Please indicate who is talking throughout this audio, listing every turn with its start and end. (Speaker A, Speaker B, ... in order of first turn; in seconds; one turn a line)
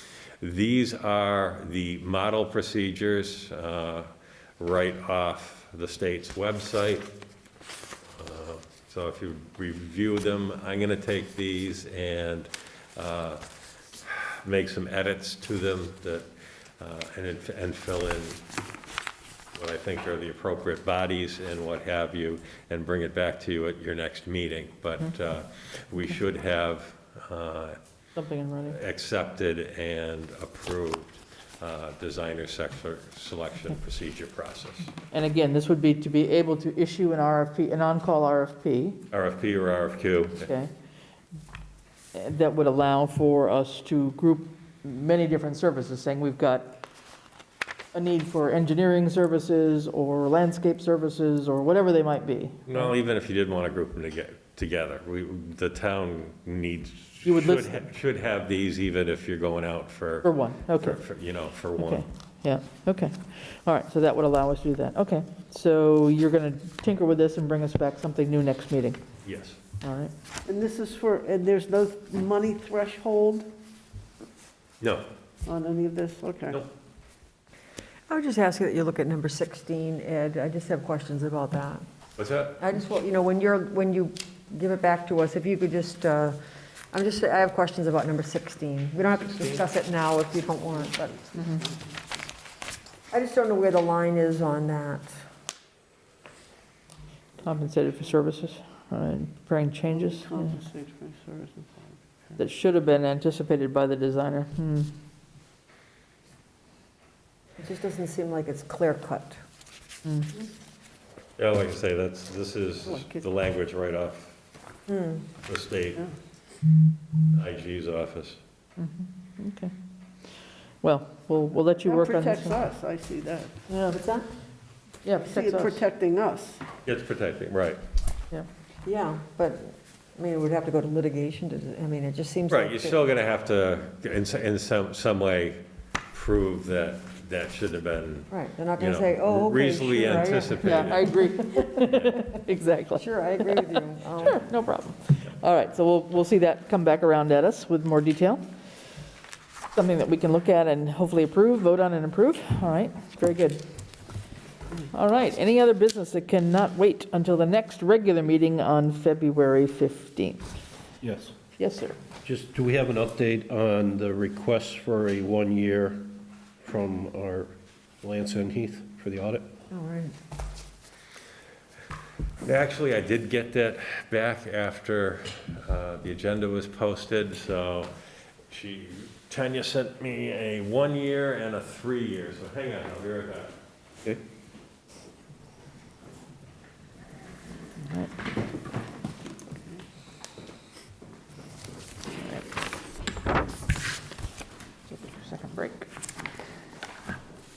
Speaker A: 0.4-7.1
Speaker A: 8.2-13.4
Speaker A: 14.0-16.3
Speaker A: 16.8-18.4
Speaker A: 19.5-27.8
Speaker B: 28.1-28.8
Speaker A: 28.7-34.9
Speaker B: 35.1-39.0
Speaker A: 39.1-40.5
Speaker B: 40.5-40.7
Speaker B: 42.1-46.7
Speaker B: 47.9-52.9
Speaker A: 52.7-62.0
Speaker B: 57.2-57.8
Speaker B: 60.2-61.0
Speaker B: 61.8-69.0
Speaker A: 69.2-69.6
Speaker B: 69.8-70.1
Speaker C: 70.5-73.5
Speaker A: 74.8-75.1
Speaker C: 75.5-76.6
Speaker D: 78.1-81.8
Speaker A: 82.2-82.6
Speaker D: 82.6-86.4
Speaker D: 86.9-91.6
Speaker B: 91.4-91.6
Speaker C: 91.6-92.0
Speaker D: 93.1-95.1
Speaker B: 97.4-100.6
Speaker C: 99.9-102.3
Speaker B: 102.4-104.9
Speaker D: 107.6-109.4
Speaker B: 110.1-110.3
Speaker A: 111.4-114.4
Speaker C: 112.8-113.2
Speaker D: 114.9-115.3
Speaker A: 115.4-116.1
Speaker A: 117.3-118.4
Speaker B: 118.8-119.7
Speaker B: 120.8-122.7
Speaker C: 121.8-123.7
Speaker B: 123.7-124.0
Speaker D: 123.9-124.3
Speaker B: 125.0-125.8
Speaker C: 125.2-126.7
Speaker A: 126.8-127.8
Speaker D: 128.8-133.0
Speaker A: 132.5-141.2
Speaker D: 138.3-141.3
Speaker B: 140.1-148.5
Speaker D: 143.0-144.5
Speaker B: 149.7-153.7
Speaker B: 154.8-160.5
Speaker E: 161.0-161.3
Speaker B: 161.6-162.0
Speaker E: 162.2-169.5
Speaker D: 169.7-170.1
Speaker A: 172.4-177.9
Speaker A: 178.5-183.5
Speaker B: 187.8-188.1
Speaker B: 192.2-192.4
Speaker B: 194.9-195.9